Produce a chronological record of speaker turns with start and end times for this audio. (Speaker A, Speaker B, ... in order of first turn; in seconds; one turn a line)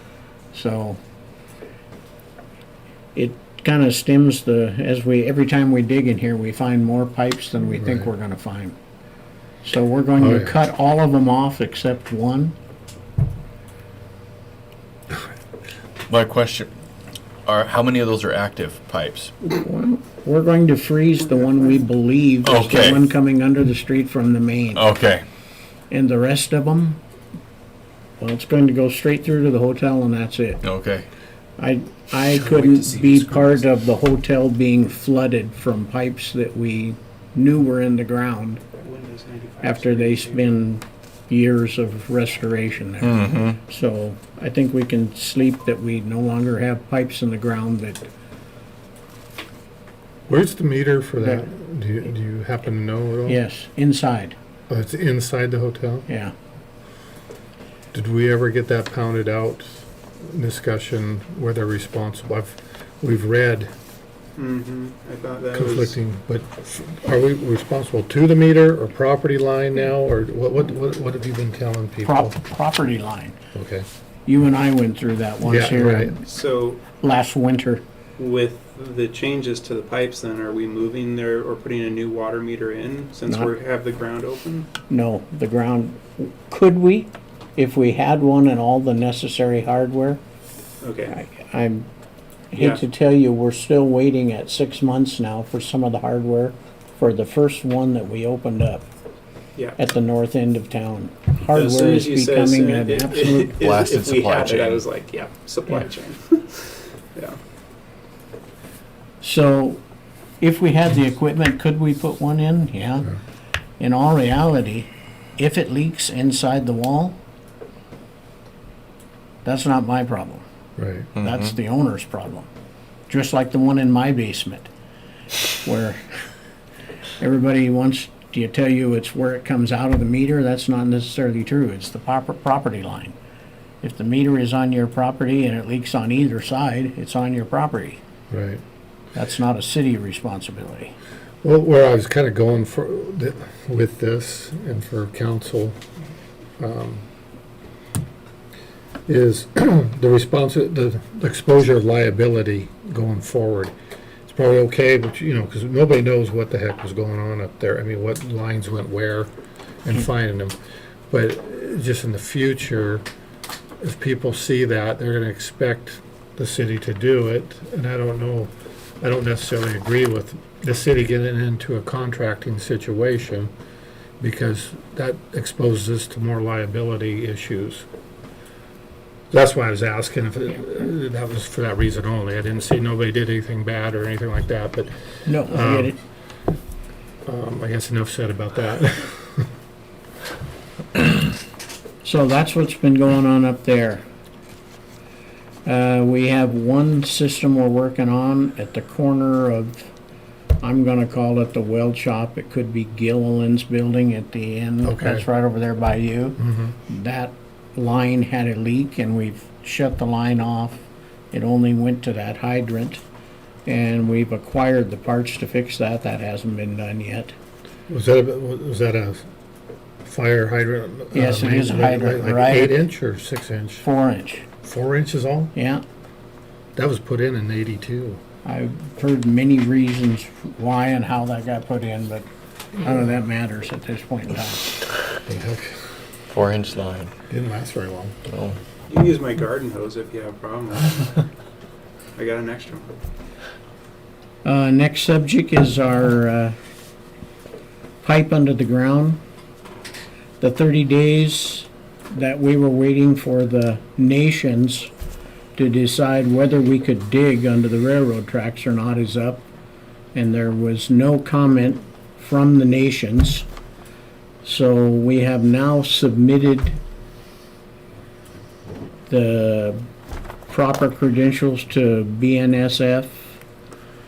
Speaker A: 0.5-1.0
Speaker A: 3.1-8.8
Speaker B: 7.8-8.1
Speaker A: 9.6-12.5
Speaker B: 10.2-10.6
Speaker C: 16.1-16.7
Speaker C: 17.4-19.3
Speaker A: 19.4-24.9
Speaker C: 22.4-23.0
Speaker C: 24.7-25.2
Speaker A: 25.9-27.0
Speaker A: 28.2-30.6
Speaker C: 30.6-31.1
Speaker A: 31.6-38.6
Speaker D: 38.8-40.5
Speaker A: 39.6-48.0
Speaker C: 43.0-43.6
Speaker B: 50.3-53.4
Speaker A: 53.3-54.4
Speaker B: 54.7-56.1
Speaker A: 56.1-56.3
Speaker B: 57.9-63.7
Speaker D: 64.4-66.0
Speaker B: 65.5-72.3
Speaker A: 72.0-73.4
Speaker B: 73.5-73.8
Speaker A: 74.3-76.2
Speaker B: 75.4-76.2
Speaker D: 76.2-76.8
Speaker A: 77.0-77.8
Speaker D: 78.2-84.7
Speaker A: 84.9-90.2
Speaker D: 90.8-91.2
Speaker A: 91.1-91.9
Speaker A: 92.5-98.9
Speaker D: 92.5-92.8
Speaker A: 99.8-103.5
Speaker D: 101.5-107.4
Speaker C: 103.6-104.8
Speaker A: 109.2-109.8
Speaker A: 110.4-113.1
Speaker A: 113.8-117.2
Speaker A: 119.4-120.4
Speaker B: 120.8-121.1
Speaker C: 121.1-121.5
Speaker A: 121.2-122.5
Speaker A: 123.1-124.7
Speaker A: 125.6-126.1
Speaker A: 127.2-133.2
Speaker A: 133.8-138.0
Speaker B: 138.3-138.6
Speaker A: 139.1-140.9
Speaker B: 141.4-145.8
Speaker B: 146.6-147.0
Speaker B: 149.1-153.7
Speaker B: 154.2-159.3
Speaker B: 159.8-160.6
Speaker B: 161.1-163.1
Speaker B: 163.8-173.5
Speaker B: 174.2-177.9
Speaker B: 179.3-185.9
Speaker A: 185.2-186.0
Speaker B: 187.2-189.5
Speaker A: 192.0-194.0
Speaker A: 195.6-199.9
Speaker A: 200.6-210.8
Speaker B: 204.8-205.2
Speaker B: 206.4-206.7
Speaker A: 211.3-213.0
Speaker A: 213.7-217.3
Speaker B: 217.9-219.3
Speaker B: 220.0-223.8
Speaker A: 221.1-222.8
Speaker A: 223.8-224.4
Speaker B: 224.6-225.5
Speaker A: 225.5-225.8
Speaker B: 226.8-228.2
Speaker A: 228.4-234.7
Speaker B: 235.2-235.8
Speaker C: 236.3-237.1
Speaker B: 237.3-238.2
Speaker C: 238.3-238.6
Speaker D: 238.9-241.2
Speaker D: 242.2-242.9
Speaker A: 244.4-246.6
Speaker A: 248.0-249.2
Speaker A: 250.4-254.9
Speaker A: 255.6-259.4
Speaker A: 260.1-263.5
Speaker A: 264.4-266.8
Speaker A: 269.1-269.8
Speaker A: 270.5-273.4